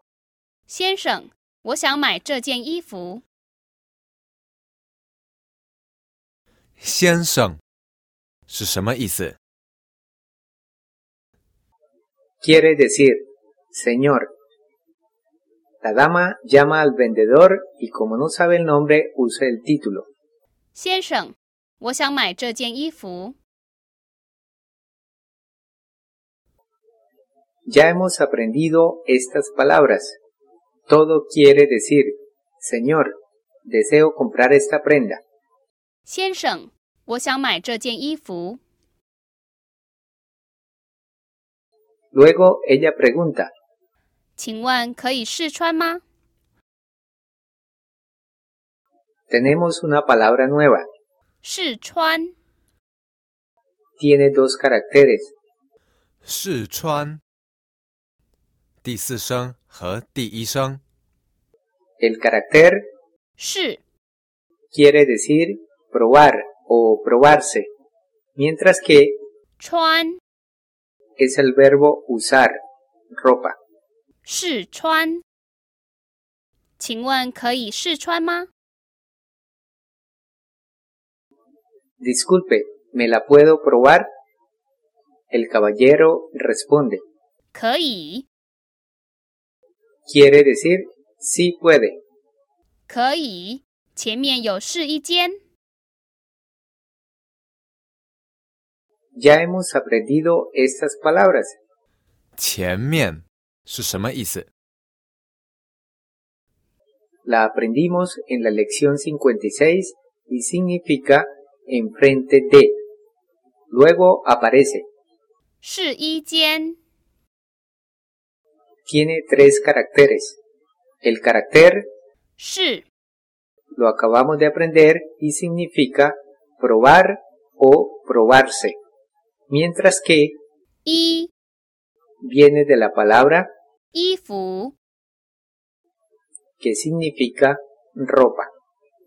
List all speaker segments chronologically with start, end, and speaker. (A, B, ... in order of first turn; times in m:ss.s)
0:00.7-0:03.2 A
0:06.8-0:07.6 B
0:08.5-0:09.4 B
0:12.4-0:14.3 C
0:15.8-0:20.1 C
0:20.8-0:23.4 A
0:27.7-0:30.2 C
0:30.9-0:33.1 C
0:33.7-0:35.2 C
0:36.1-0:38.6 A
0:42.1-0:43.5 C
0:44.4-0:46.0 A
0:49.3-0:50.8 C
0:51.4-0:52.3 A
0:54.0-0:55.3 C
0:56.2-0:57.2 B
0:58.8-1:00.8 B
1:02.0-1:02.8 C
1:03.4-1:03.8 A
1:04.7-1:07.7 C
1:08.4-1:09.2 C
1:09.6-1:10.2 A
1:11.2-1:12.6 C
1:13.2-1:13.6 C
1:14.3-1:15.2 A
1:16.8-1:18.5 A
1:22.0-1:24.1 C
1:25.3-1:27.0 C
1:27.5-1:28.2 A
1:30.1-1:32.0 C
1:32.9-1:35.4 A
1:39.2-1:41.6 C
1:42.4-1:44.5 B
1:47.2-1:52.7 C
1:53.7-1:54.9 C
1:55.6-1:56.8 A
1:58.9-2:00.4 C
2:01.0-2:01.9 C
2:02.4-2:02.8 A
2:03.8-2:08.8 C
2:09.5-2:10.4 C
2:10.8-2:11.3 A
2:12.2-2:13.5 C
2:13.9-2:14.7 A
2:16.6-2:18.5 C